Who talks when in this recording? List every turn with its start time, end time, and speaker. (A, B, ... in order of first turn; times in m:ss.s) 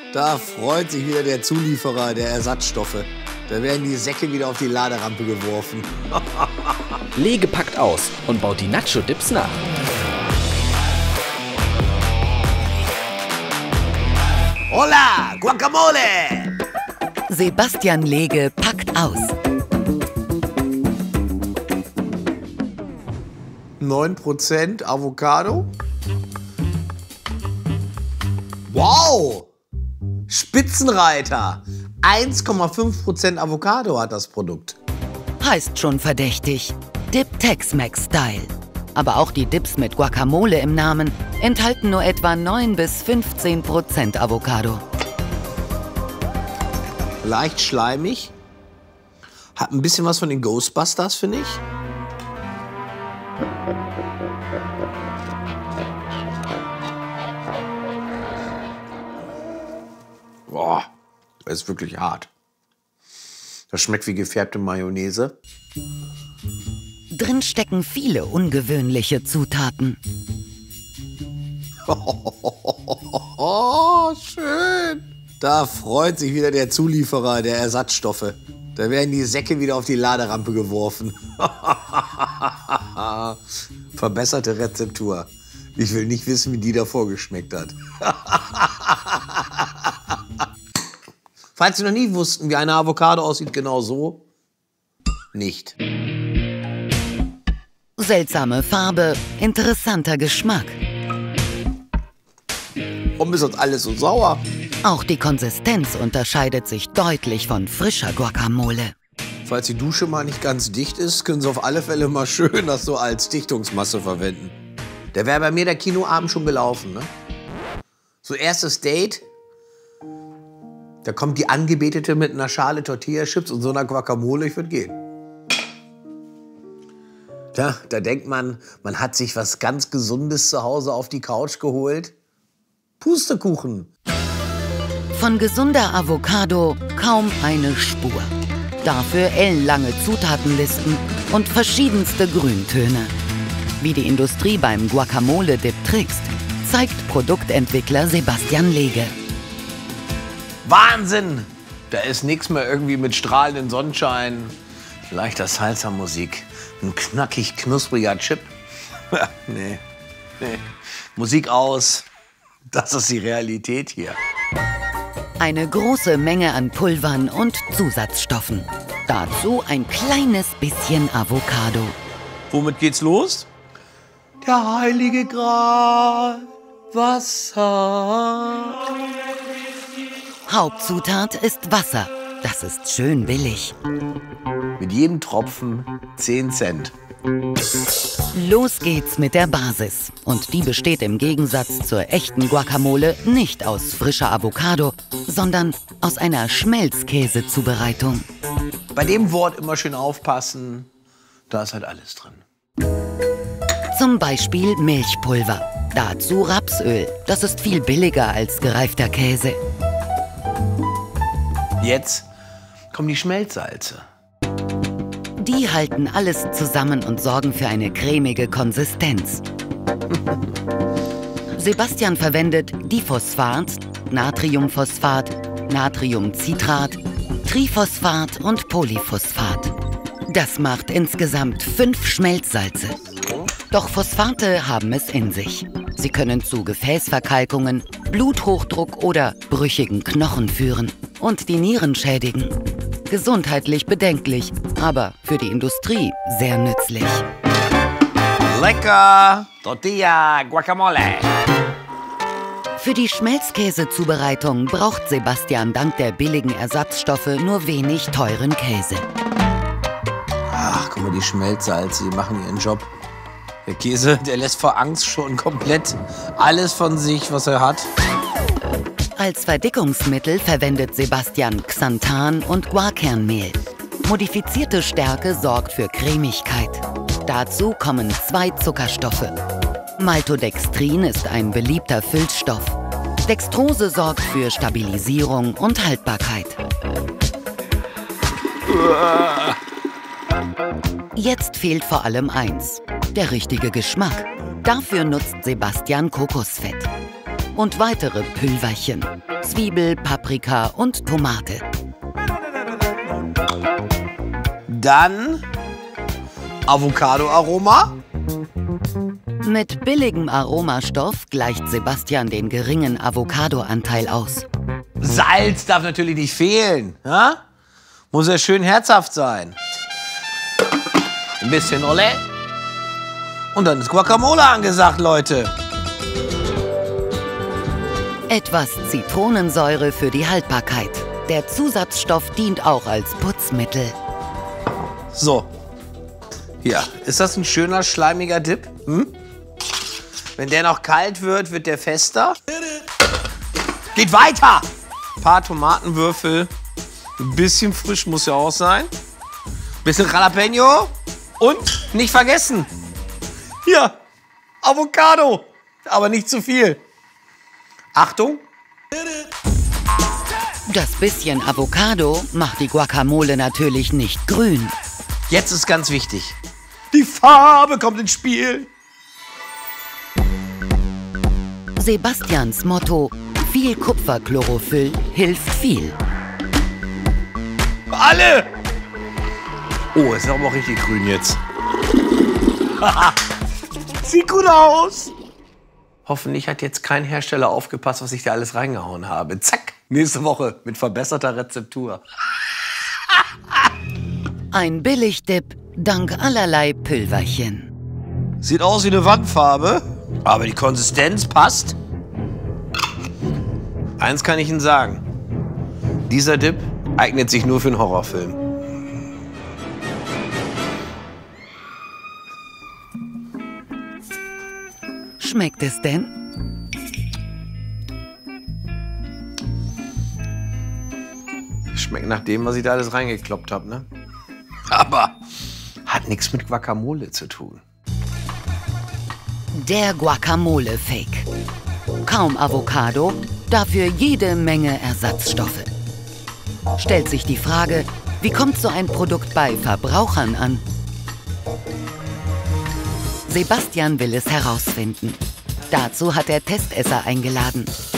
0:00.1-0:06.7 A
0:07.2-0:09.6 B
0:14.7-0:16.5 A
0:17.3-0:19.3 C
0:23.8-0:25.7 A
0:28.7-0:29.5 A
0:30.3-0:34.8 A
0:35.4-0:44.8 C
0:47.2-0:48.3 A
0:49.6-0:51.6 A
1:00.5-1:00.9 A
1:01.4-1:02.3 A
1:03.7-1:05.3 A
1:07.1-1:10.0 C
1:11.9-1:23.4 A
1:24.0-1:29.6 A
1:31.6-1:34.2 A
1:35.3-1:35.8 A
1:38.0-1:40.8 C
1:43.2-1:44.4 A
1:44.8-1:48.9 C
1:49.5-1:54.5 A
1:55.1-1:57.1 A
1:58.2-1:59.2 A
2:01.0-2:05.0 A
2:07.5-2:12.1 A
2:13.0-2:13.9 A
2:15.1-2:18.3 C
2:18.8-2:23.1 C
2:23.8-2:29.1 C
2:30.6-2:34.6 A
2:35.1-2:38.5 A
2:39.1-2:39.8 A
2:41.2-2:42.1 A
2:42.7-2:44.2 A
2:45.4-2:52.0 C
2:52.5-2:53.5 A
2:54.4-2:58.8 A
3:00.5-3:03.8 C
3:04.8-3:06.9 A
3:08.3-3:18.3 C
3:19.0-3:20.9 A
3:21.5-3:22.4 A
3:23.9-3:29.6 C
3:31.8-3:32.3 A
3:32.9-3:34.1 A
3:35.4-3:39.4 C
3:41.6-3:49.7 C
3:50.3-3:53.0 C
3:53.0-3:53.5 A
3:53.7-4:07.2 C
4:08.5-4:11.3 A
4:12.8-4:19.1 C
4:20.5-4:22.9 A
4:23.7-4:27.9 A
4:29.2-4:39.4 C
4:40.0-4:46.6 C
4:48.7-4:49.6 A
4:51.2-4:56.9 C
4:57.6-5:01.6 C
5:04.7-5:05.4 A
5:06.7-5:08.0 A
5:09.4-5:14.5 C
5:15.0-5:17.4 A
5:18.1-5:19.6 A
5:21.4-5:22.2 A
5:23.5-5:25.5 A
5:28.3-5:34.0 C
5:35.1-5:35.5 A
5:36.6-5:39.1 A
5:40.4-5:42.4 A
5:44.0-5:44.7 A
5:45.2-5:46.5 A
5:47.2-5:48.9 A
5:49.8-5:52.7 A
5:53.6-5:54.0 A
5:54.6-5:56.8 A
5:57.9-5:58.4 A
6:00.7-6:04.8 C
6:05.3-6:06.4 A
6:06.9-6:08.7 A
6:11.8-6:16.0 C
6:17.9-6:18.5 A
6:20.0-6:21.4 A
6:22.8-6:23.2 A
6:24.0-6:25.1 A
6:26.1-6:32.0 A
6:34.5-6:37.7 C
6:38.4-6:41.8 A
6:44.0-6:45.0 A
6:46.1-6:48.4 A
6:55.2-6:56.1 C
7:01.7-7:03.9 A
7:04.7-7:05.2 A
7:05.9-7:07.6 A
7:09.5-7:11.3 C
7:12.0-7:15.7 C
7:16.8-7:20.6 C
7:23.3-7:27.7 C